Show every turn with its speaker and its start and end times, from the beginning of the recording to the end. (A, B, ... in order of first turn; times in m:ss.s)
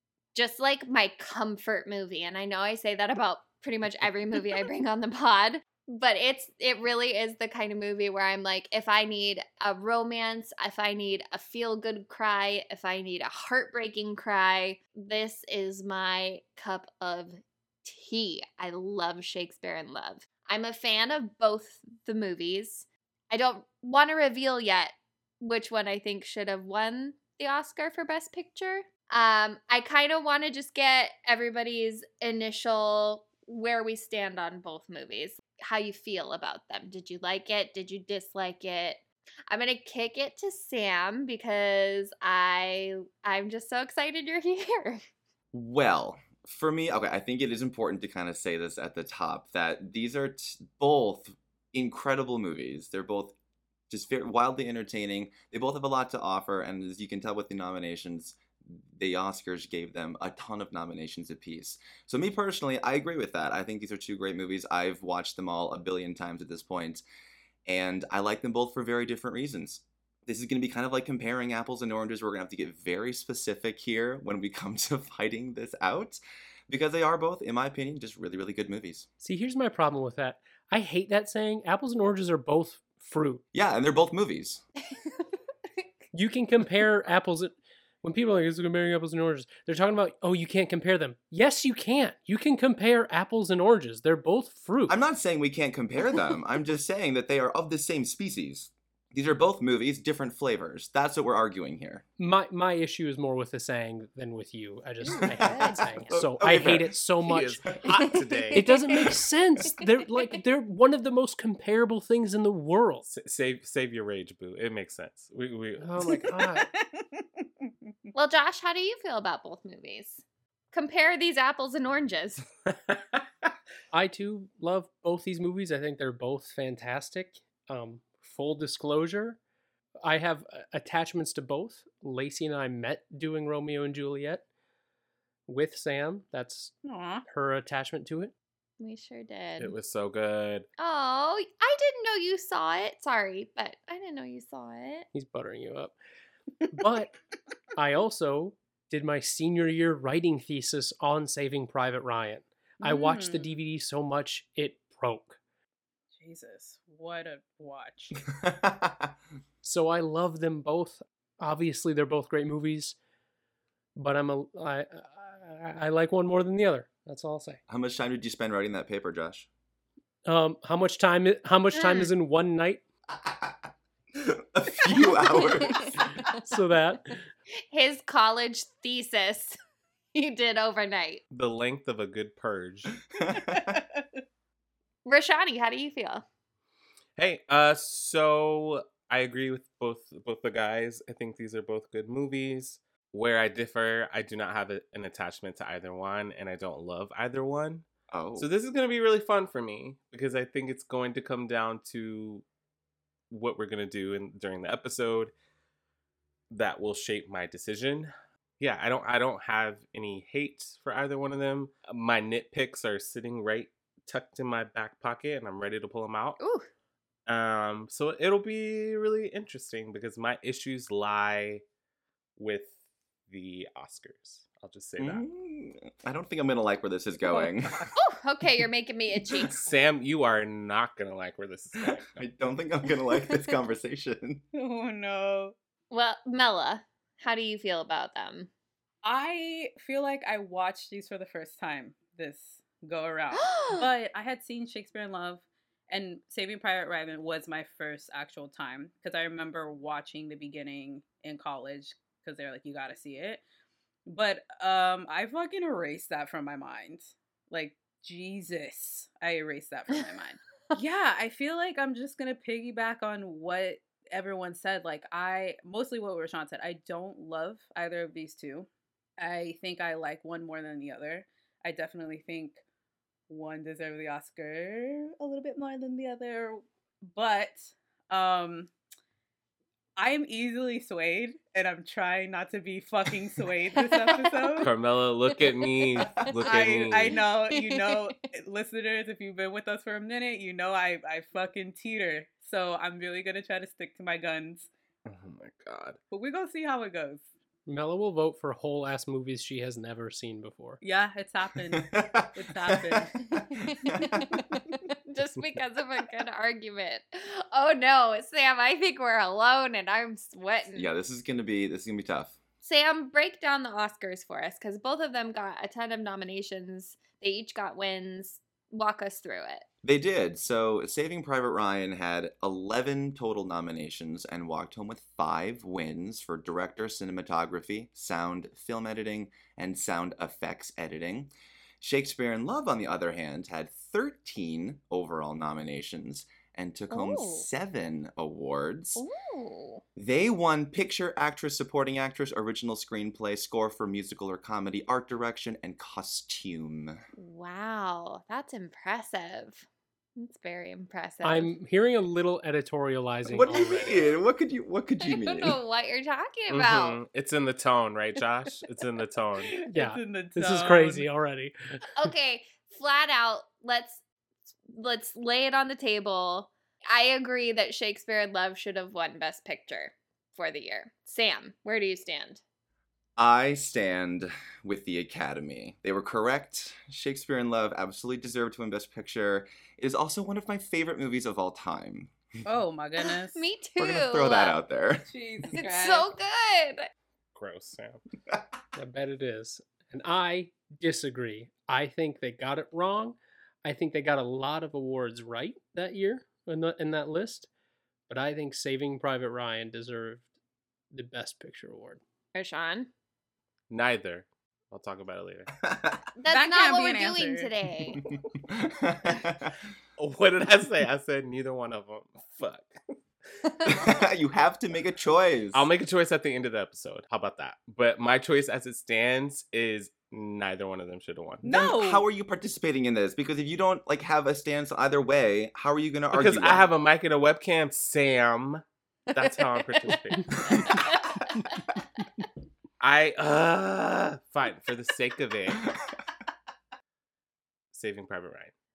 0:00.4-0:45.0 A
0:45.5-0:53.4 B
0:53.9-1:07.0 B
1:07.7-1:19.1 B
1:19.2-1:23.4 C
1:23.5-1:24.6 B
1:24.9-1:25.2 A
1:26.1-1:35.0 C
1:34.9-1:42.0 B
1:42.2-1:47.7 C
1:45.1-1:46.1 A
1:45.3-1:46.9 B
1:47.2-1:48.6 D
1:48.6-1:53.0 C
1:53.1-1:56.2 D
1:55.8-1:56.7 C
1:56.4-1:57.2 E
1:58.1-2:02.5 A
2:03.9-2:09.4 C
2:10.0-2:14.4 C
2:15.5-2:16.7 C
2:16.8-2:17.2 E
2:17.3-2:18.3 C
2:18.8-2:19.7 A
2:19.6-2:20.7 D
2:20.8-2:25.1 A
2:25.1-2:26.0 C
2:26.7-2:27.1 C
2:27.8-2:35.4 C
2:32.8-2:33.6 E
2:36.1-2:38.2 E
2:38.3-2:39.1 B
2:39.6-2:43.0 C
2:44.0-2:47.6 C
2:47.7-2:49.5 B
2:50.3-2:52.8 C
2:51.7-2:52.1 A
2:53.2-2:53.5 B
2:54.2-2:56.0 B
2:55.0-2:56.3 A
2:56.4-2:57.3 C
2:57.7-2:59.6 A
3:00.1-3:01.2 A
3:01.3-3:03.0 D
3:03.4-3:03.7 B
3:05.0-3:06.2 A
3:07.2-3:17.8 D
3:18.1-3:18.5 B
3:18.4-3:22.4 D
3:23.3-3:25.3 D
3:26.5-3:36.4 D
3:36.4-3:36.7 A
3:37.3-3:41.6 D
3:42.4-3:42.8 D
3:43.3-3:45.2 D
3:45.0-3:47.9 B
3:48.0-3:49.6 A
3:49.6-3:52.2 D
3:52.2-3:54.4 B
3:54.5-3:55.6 E
3:55.9-3:58.5 A
3:59.0-4:13.4 E
4:03.3-4:03.9 A
4:14.1-4:32.6 E
4:33.3-4:38.7 E
4:40.0-4:44.7 E
4:43.8-4:44.6 A
4:44.6-4:47.2 D
4:46.4-4:54.7 E
4:47.0-4:48.1 A
4:55.1-4:56.0 D
4:56.1-4:57.3 E
4:57.7-5:00.8 C
5:00.8-5:03.1 E
5:01.7-5:04.4 B
5:03.7-5:10.9 A
5:10.8-5:12.4 B
5:12.6-5:19.7 A
5:19.8-5:39.0 B
5:36.9-5:37.5 A
5:39.0-5:39.8 A
5:40.0-5:47.0 B
5:47.2-5:49.6 A
5:50.2-5:51.5 A
5:51.2-5:54.0 C
5:53.3-5:55.6 B
5:55.0-5:57.0 A
5:56.5-5:59.5 D
5:59.5-6:01.1 E
5:59.7-6:01.5 C
6:02.0-6:04.0 A
6:04.6-6:12.4 A
6:13.2-6:22.2 B
6:22.4-6:23.4 E
6:23.3-6:24.6 A
6:23.8-6:25.0 B
6:25.1-6:26.1 E
6:25.5-6:26.9 A
6:27.4-6:28.0 D
6:28.8-6:37.5 C
6:38.1-6:40.3 C
6:40.9-6:42.0 C
6:42.3-6:42.9 A
6:43.7-6:45.5 D
6:45.7-6:45.9 B
6:46.2-6:48.0 A
6:46.3-6:47.5 E
6:48.1-6:49.6 B
6:50.0-6:52.8 D
6:53.6-6:55.7 B
6:55.5-7:01.4 D
7:01.4-7:02.1 E
7:01.5-7:06.7 B
7:06.1-7:10.7 D
7:09.2-7:11.1 A
7:10.5-7:11.0 B
7:12.8-7:15.7 D
7:17.7-7:18.5 D